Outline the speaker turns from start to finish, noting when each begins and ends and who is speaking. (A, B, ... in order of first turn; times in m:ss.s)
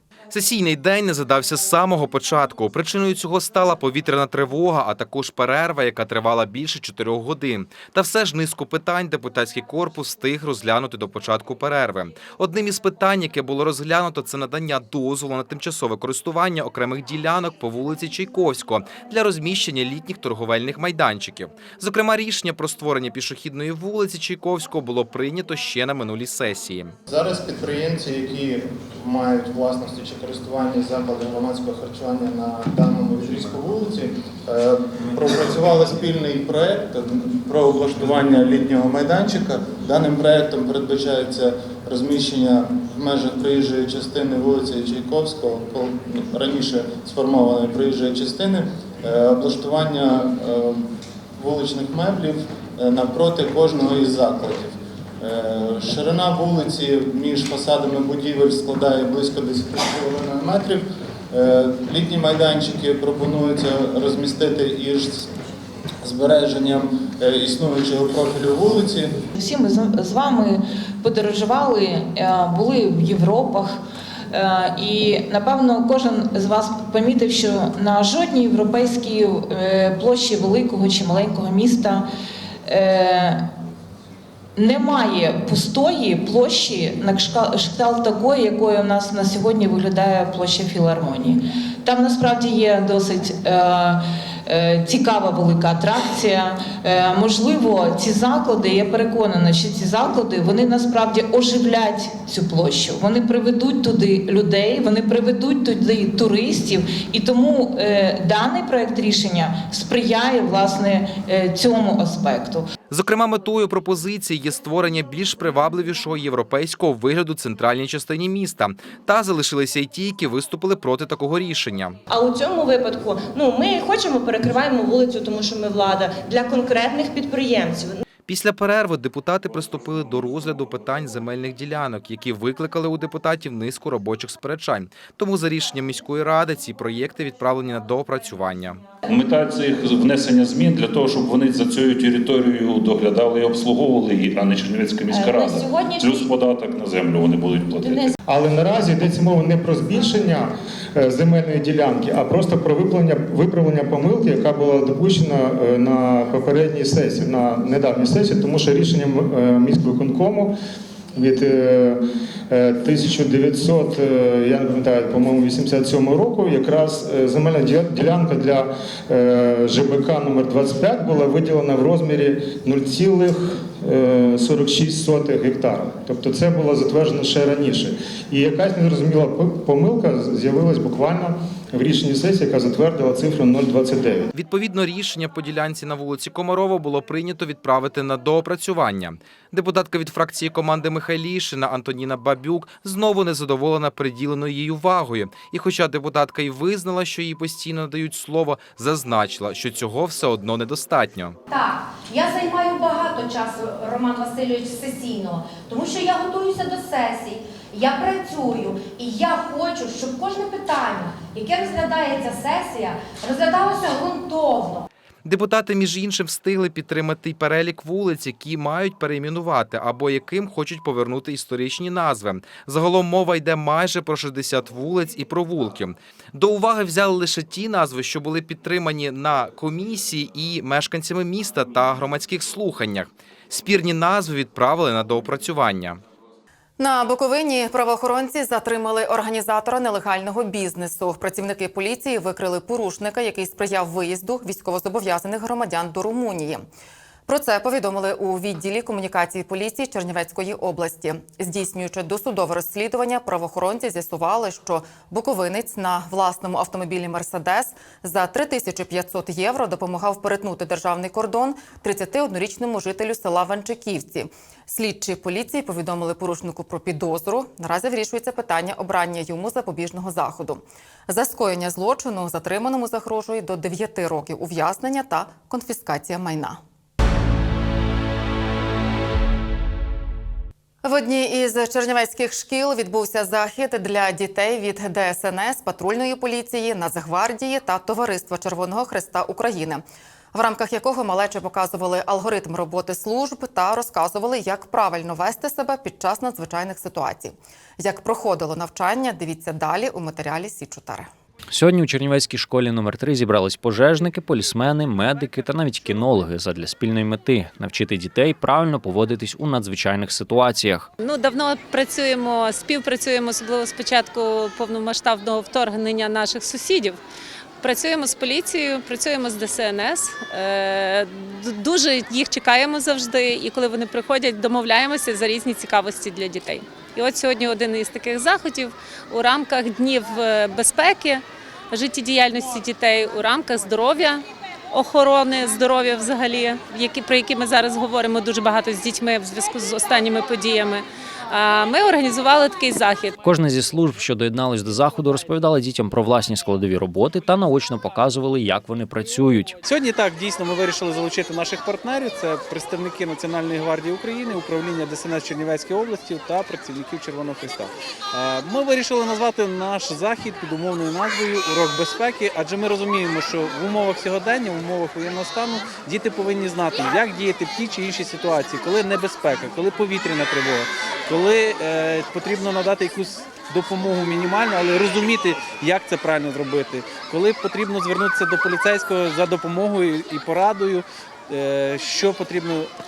0:00.3-0:26.9 A
0:27.1-1:05.3 B
1:06.0-1:09.2 B
1:09.4-1:13.8 C
1:14.3-1:22.0 C
1:22.6-1:23.5 C
1:24.6-1:52.6 C
1:52.9-2:02.0 A
2:02.1-2:08.0 D
2:08.3-2:18.8 A
2:19.0-2:28.1 E
2:25.1-2:26.3 D
2:27.8-2:28.1 D
2:28.3-2:40.6 F
2:41.1-3:04.3 F
3:04.3-3:21.4 A
3:21.5-3:34.8 G
3:35.2-3:56.0 A
3:56.8-4:06.6 H
4:07.2-4:36.6 H
4:40.8-5:01.1 H
5:01.5-5:10.9 I
5:11.0-5:17.0 J
5:17.6-5:43.1 J
5:43.2-5:49.5 I
5:49.6-6:22.7 K